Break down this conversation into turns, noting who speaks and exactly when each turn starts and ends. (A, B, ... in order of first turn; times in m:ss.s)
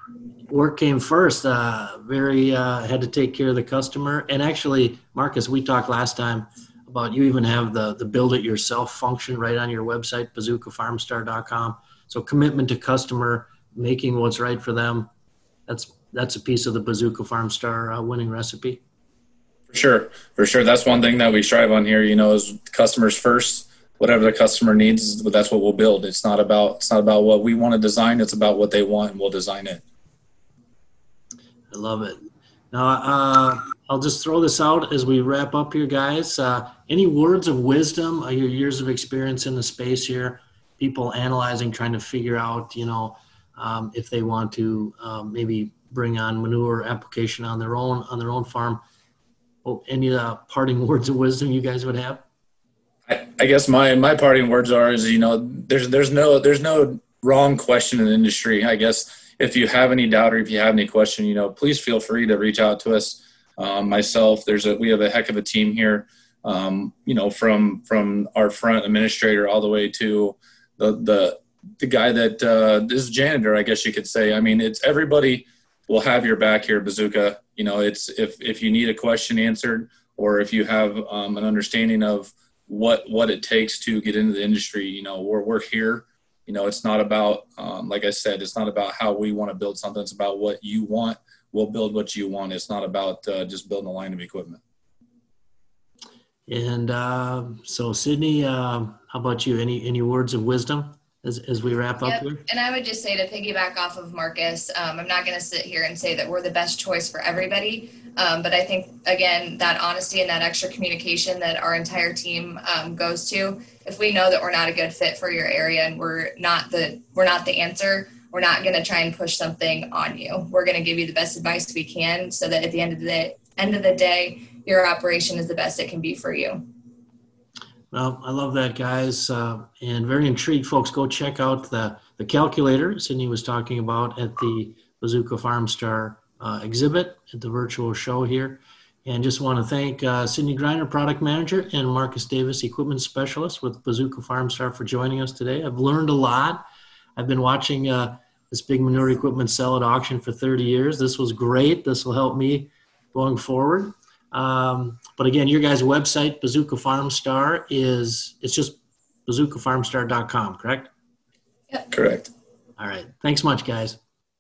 0:00.5-0:15.1 A
0:15.7-0:18.8 A
0:19.7-0:29.8 B
0:31.7-0:32.2 A
0:32.7-0:48.8 A
0:49.6-0:52.2 A
0:53.1-1:34.6 B
1:36.5-1:42.4 A
1:42.0-2:06.7 C
2:07.9-2:26.6 A
2:27.2-2:40.9 A
2:41.9-2:42.3 B
2:42.8-2:44.0 A